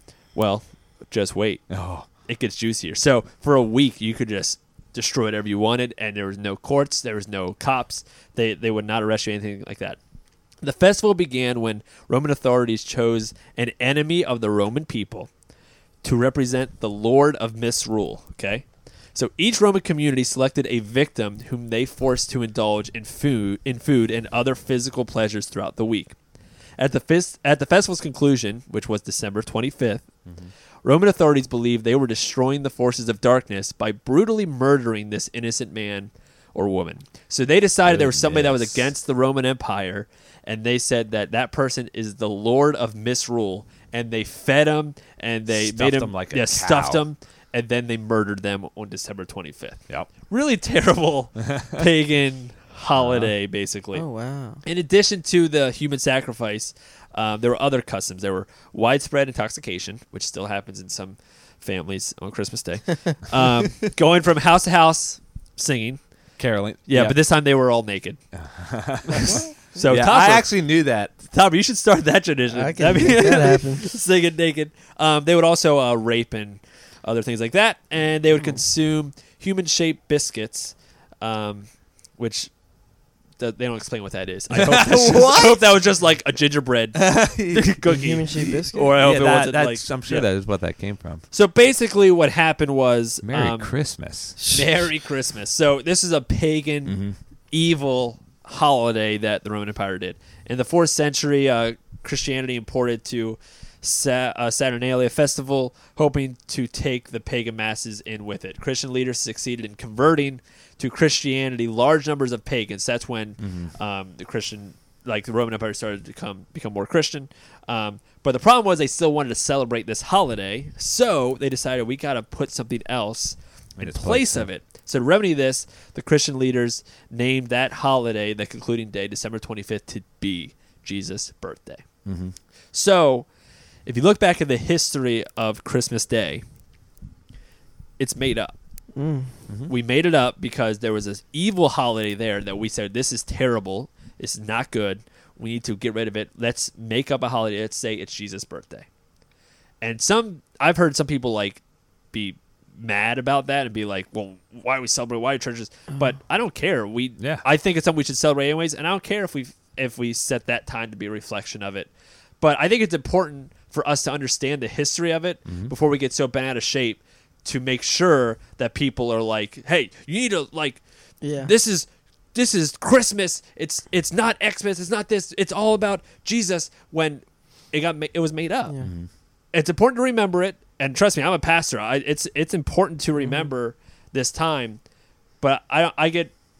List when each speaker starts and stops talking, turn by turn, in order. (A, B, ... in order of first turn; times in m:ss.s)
0:00.3-0:01.6 A
0:01.7-0:02.1 B
0:02.3-0:10.0 A
0:10.6-0:15.3 A
0:16.0-0:26.2 A
0:26.8-0:30.1 A
0:30.2-0:30.5 B
0:30.8-0:54.0 A
0:37.8-0:38.8 B
0:45.5-0:47.0 B
0:51.5-0:51.8 B
0:53.0-0:53.3 B
0:53.9-0:54.6 C
0:54.6-1:06.0 A
1:06.4-1:07.2 B
1:06.9-1:08.2 A
1:08.3-1:11.2 B
1:09.1-1:10.5 A
1:09.2-1:09.5 C
1:11.2-1:22.5 A
1:12.5-1:13.9 C
1:23.4-1:30.2 A
1:24.5-1:25.6 B
1:26.9-1:27.8 B
1:27.9-1:28.9 C
1:28.3-1:31.2 B
1:31.3-1:33.7 A
1:33.2-1:34.5 B
1:34.5-2:11.8 A
1:36.8-1:37.2 B
1:53.4-1:53.7 B
2:03.8-2:04.5 B
2:12.0-2:12.3 B
2:12.7-2:13.3 A
2:13.8-2:16.4 A
2:18.0-2:18.5 A
2:18.9-2:19.3 C
2:19.7-2:28.8 A
2:29.8-2:31.6 A
2:32.1-2:50.8 A
2:37.2-2:37.4 B
2:45.4-2:45.7 B
2:51.2-2:51.5 C
2:51.4-2:58.7 A
2:58.8-2:59.1 B
2:59.5-3:04.8 A
3:03.2-3:03.5 C
3:05.4-3:06.3 A